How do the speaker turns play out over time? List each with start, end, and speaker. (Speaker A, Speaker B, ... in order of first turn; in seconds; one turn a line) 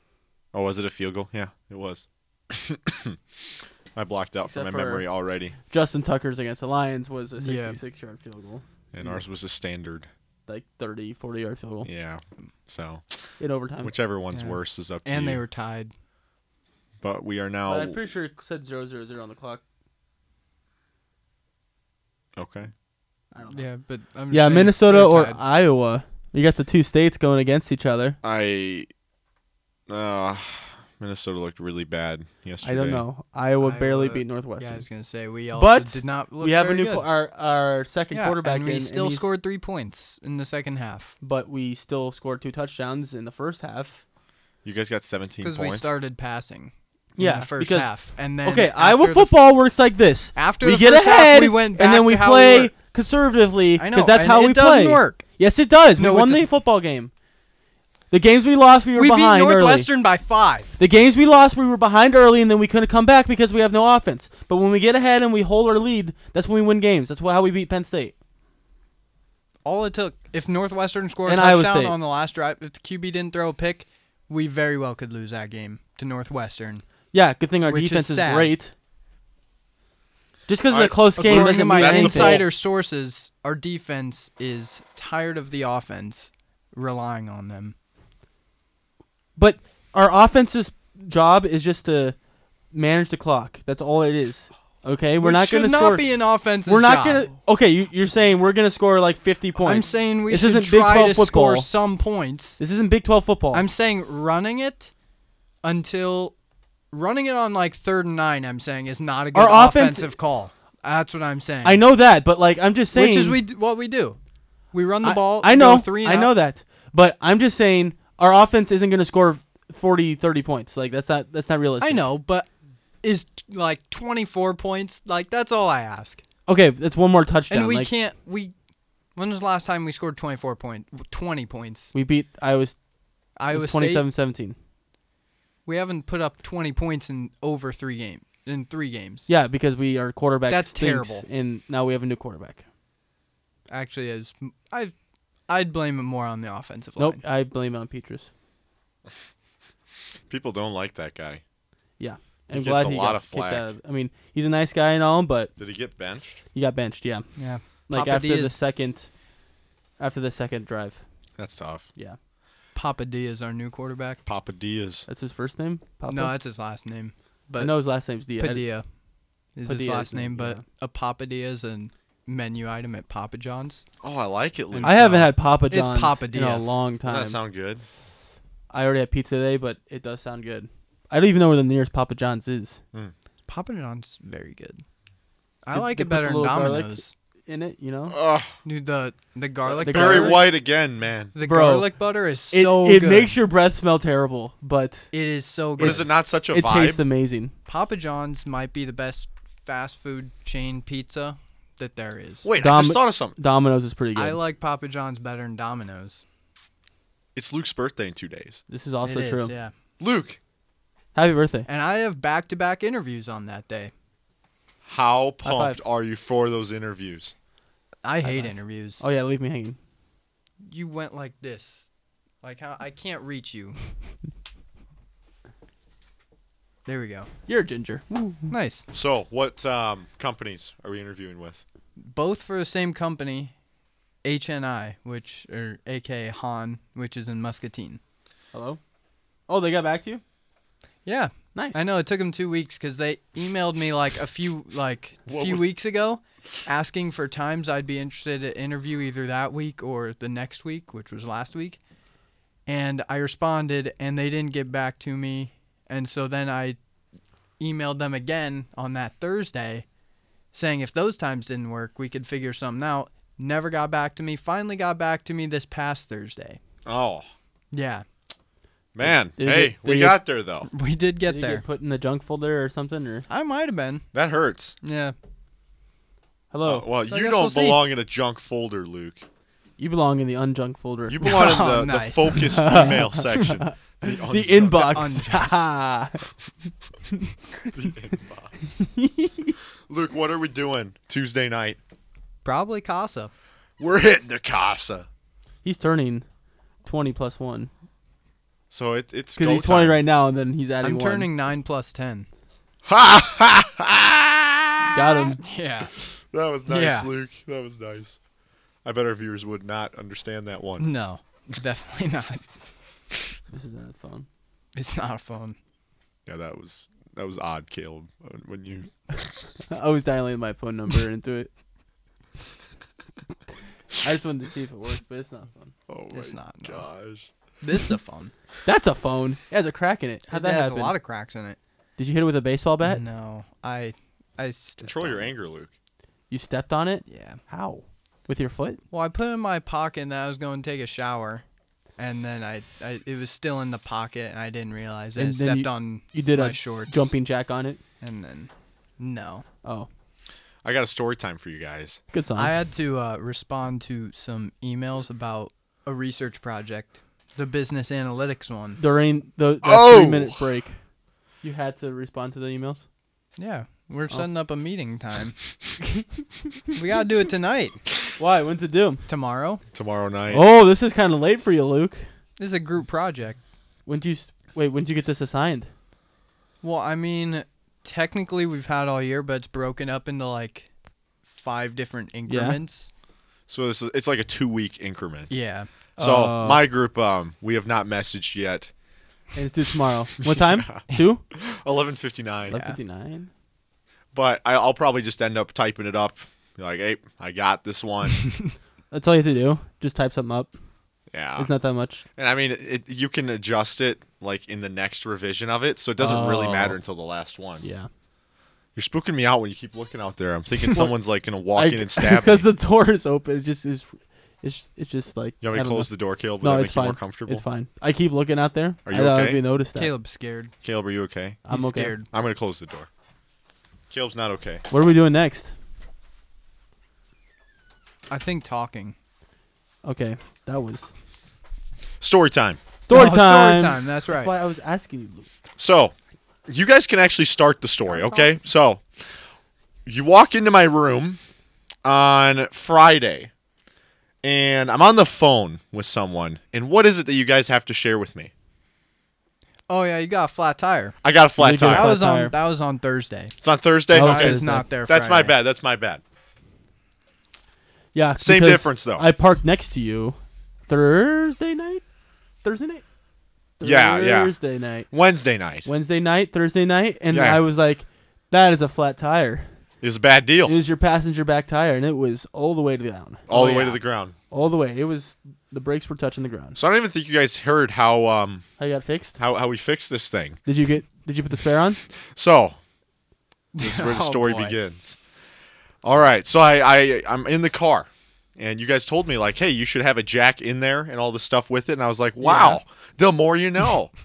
Speaker A: 0.5-3.2
Speaker A: 3.9-5.5
Speaker B: 4.5-5.0
Speaker B: 5.7-9.2
Speaker C: 7.4-7.8
Speaker A: 8.9-10.1
Speaker B: 10.5-11.9
Speaker A: 11.8-13.0
Speaker B: 13.4-13.9
Speaker A: 13.8-15.4
Speaker C: 14.3-15.9
Speaker A: 17.0-18.0
Speaker B: 17.6-19.6
Speaker A: 22.4-22.7
Speaker B: 23.3-23.6
Speaker C: 23.5-25.4
Speaker B: 24.3-28.2
Speaker A: 28.2-28.9
Speaker A: 29.9-33.0
Speaker B: 32.6-34.8
Speaker C: 33.6-37.1
Speaker B: 35.5-39.3
Speaker C: 38.1-41.1
Speaker B: 41.2-44.0
Speaker A: 44.6-45.9
Speaker C: 45.4-49.3
Speaker B: 47.2-47.9
Speaker B: 48.4-57.1
Speaker C: 50.4-52.7
Speaker C: 53.8-55.3
Speaker C: 56.0-56.5
Speaker B: 58.1-59.9
Speaker C: 59.0-60.8
Speaker B: 60.8-68.1
Speaker C: 69.6-76.8
Speaker B: 71.2-72.0
Speaker B: 77.1-78.7
Speaker C: 77.7-78.5
Speaker B: 80.5-82.4
Speaker A: 80.7-82.5
Speaker C: 81.2-87.7
Speaker B: 89.3-92.2
Speaker B: 92.7-96.0
Speaker C: 95.2-97.2
Speaker B: 96.6-101.7
Speaker C: 99.5-102.6
Speaker B: 102.6-103.6
Speaker C: 103.5-104.9
Speaker C: 105.6-106.3
Speaker C: 106.9-111.8
Speaker B: 109.3-110.1
Speaker B: 111.6-113.4
Speaker C: 112.9-114.2
Speaker C: 114.7-116.3
Speaker B: 115.0-122.0
Speaker C: 121.8-122.5
Speaker C: 123.0-126.2
Speaker B: 126.5-127.9
Speaker C: 127.5-128.5
Speaker C: 129.2-131.9
Speaker B: 131.9-132.8
Speaker C: 133.4-134.1
Speaker B: 133.5-134.6
Speaker C: 135.7-139.3
Speaker B: 139.3-142.6
Speaker C: 140.5-141.2
Speaker C: 143.7-144.9
Speaker C: 145.5-147.2
Speaker B: 147.0-148.3
Speaker A: 150.3-151.4
Speaker B: 152.0-155.5
Speaker A: 152.5-153.7
Speaker A: 155.6-156.4
Speaker B: 156.5-157.3
Speaker C: 157.4-158.6
Speaker B: 157.9-159.1
Speaker B: 160.0-161.0
Speaker A: 161.4-161.9
Speaker C: 162.7-164.2
Speaker A: 164.3-165.1
Speaker B: 165.1-166.3
Speaker C: 166.1-167.7
Speaker B: 167.6-168.6
Speaker C: 168.4-168.8
Speaker C: 169.5-173.8
Speaker B: 169.7-170.6
Speaker A: 174.0-175.3
Speaker C: 174.8-176.6
Speaker B: 174.8-177.4
Speaker A: 177.0-177.8
Speaker B: 178.7-182.8
Speaker C: 183.5-184.8
Speaker C: 185.6-187.1
Speaker B: 185.7-188.2
Speaker A: 188.1-188.5
Speaker C: 188.6-190.4
Speaker A: 189.7-191.3
Speaker B: 189.8-190.4
Speaker C: 191.3-193.3
Speaker B: 191.4-191.9
Speaker B: 192.5-195.1
Speaker C: 195.1-196.1
Speaker A: 195.8-197.0
Speaker B: 195.8-197.5
Speaker C: 197.7-202.5
Speaker A: 202.4-203.3
Speaker B: 202.6-204.4
Speaker C: 204.2-206.2
Speaker A: 207.3-208.6
Speaker B: 208.7-209.5
Speaker C: 209.0-209.7
Speaker A: 210.0-210.4
Speaker B: 211.1-211.7
Speaker C: 211.7-213.9
Speaker A: 214.8-217.3
Speaker B: 215.4-215.8
Speaker C: 218.0-219.0
Speaker B: 218.2-219.8
Speaker C: 220.6-221.9
Speaker C: 222.4-223.8
Speaker C: 226.8-227.3
Speaker B: 227.5-228.5
Speaker C: 228.5-228.9
Speaker A: 228.9-231.6
Speaker C: 232.0-233.5
Speaker C: 234.2-238.0
Speaker B: 238.5-238.8
Speaker B: 239.5-240.2
Speaker C: 241.1-251.8
Speaker B: 241.5-241.8
Speaker A: 245.3-245.7
Speaker C: 252.7-256.8
Speaker C: 257.6-259.8
Speaker C: 260.5-266.6
Speaker A: 266.8-267.3
Speaker C: 267.7-268.0
Speaker A: 268.9-270.7
Speaker B: 269.0-270.2
Speaker C: 270.6-271.6
Speaker B: 271.2-273.2
Speaker C: 273.3-274.1
Speaker A: 274.1-274.8
Speaker C: 274.8-275.1
Speaker B: 276.5-276.9
Speaker A: 276.6-279.2
Speaker C: 277.1-277.8
Speaker B: 279.8-281.3
Speaker A: 281.1-285.1
Speaker C: 281.2-283.5
Speaker B: 282.5-286.3
Speaker C: 284.7-285.5
Speaker A: 287.6-288.6
Speaker B: 288.7-289.6
Speaker A: 289.9-291.8
Speaker C: 292.4-293.3
Speaker A: 293.8-295.1
Speaker B: 295.6-296.2
Speaker B: 296.8-297.7
Speaker A: 298.7-300.0
Speaker B: 299.4-301.3
Speaker C: 300.8-302.3
Speaker A: 302.8-305.2
Speaker B: 304.9-305.4
Speaker C: 305.4-305.9
Speaker A: 306.3-308.2
Speaker C: 306.7-307.1
Speaker A: 308.8-310.9
Speaker C: 310.8-312.4
Speaker B: 313.5-314.3
Speaker C: 314.7-315.6
Speaker A: 316.2-319.4
Speaker B: 319.7-321.5
Speaker B: 324.0-325.7
Speaker A: 325.9-327.3
Speaker C: 326.1-326.9
Speaker C: 327.6-328.3
Speaker B: 328.6-330.9
Speaker C: 330.3-331.6
Speaker B: 332.0-333.0
Speaker C: 332.8-335.3
Speaker A: 334.8-335.7
Speaker B: 336.3-338.8
Speaker C: 337.1-337.4
Speaker C: 338.9-341.4
Speaker C: 342.0-347.1
Speaker B: 345.2-347.8
Speaker C: 348.0-349.4
Speaker A: 350.6-352.0
Speaker B: 352.1-352.5
Speaker C: 352.4-358.8
Speaker B: 358.8-360.8
Speaker A: 359.6-360.4
Speaker B: 361.4-362.9
Speaker C: 363.4-365.4
Speaker C: 366.7-367.8
Speaker B: 368.2-369.0
Speaker C: 369.1-369.6
Speaker A: 369.7-370.5
Speaker B: 370.3-372.0
Speaker C: 372.4-373.4
Speaker B: 373.9-375.7
Speaker C: 376.6-380.7
Speaker C: 381.2-382.9
Speaker B: 382.3-382.6
Speaker A: 383.5-385.3
Speaker C: 385.3-385.7
Speaker B: 386.0-386.6
Speaker A: 386.0-388.7
Speaker B: 389.3-391.2
Speaker A: 390.2-392.6
Speaker B: 392.5-393.3
Speaker A: 394.1-398.3
Speaker B: 398.9-400.5
Speaker A: 401.1-401.5
Speaker B: 401.4-402.0
Speaker A: 402.1-407.6
Speaker B: 406.0-406.8
Speaker B: 407.6-407.9
Speaker A: 408.7-412.5
Speaker B: 411.5-419.9
Speaker A: 415.4-417.4
Speaker A: 418.9-419.4
Speaker C: 419.7-420.5
Speaker A: 420.6-421.5
Speaker B: 421.5-421.9
Speaker C: 421.5-422.1
Speaker A: 422.1-422.9
Speaker A: 423.9-424.6
Speaker B: 424.7-425.5
Speaker C: 428.1-428.9
Speaker B: 429.8-430.9
Speaker A: 432.0-432.6
Speaker B: 432.9-435.2
Speaker C: 432.9-434.3
Speaker A: 435.6-435.9
Speaker A: 436.5-438.8
Speaker C: 437.9-438.3
Speaker A: 439.9-441.2
Speaker A: 441.8-443.3
Speaker A: 444.2-448.3
Speaker C: 449.7-450.9
Speaker A: 451.0-451.9
Speaker B: 451.4-452.4
Speaker C: 451.6-453.4
Speaker A: 453.4-456.0
Speaker B: 453.9-454.7
Speaker C: 453.9-455.4
Speaker B: 457.9-461.8
Speaker A: 458.2-459.1
Speaker B: 462.4-462.8
Speaker B: 463.6-464.9
Speaker A: 463.6-464.4
Speaker A: 464.9-465.7
Speaker B: 465.6-469.5
Speaker A: 467.1-467.4
Speaker A: 469.8-470.6
Speaker B: 470.4-473.2
Speaker A: 473.3-474.1
Speaker C: 473.3-473.8
Speaker B: 474.3-476.6
Speaker A: 476.6-478.4
Speaker B: 478.6-479.2
Speaker A: 479.2-480.4
Speaker B: 480.4-481.8
Speaker A: 482.0-482.6
Speaker C: 483.5-484.6
Speaker A: 483.6-485.0
Speaker A: 485.8-493.9
Speaker C: 492.2-492.6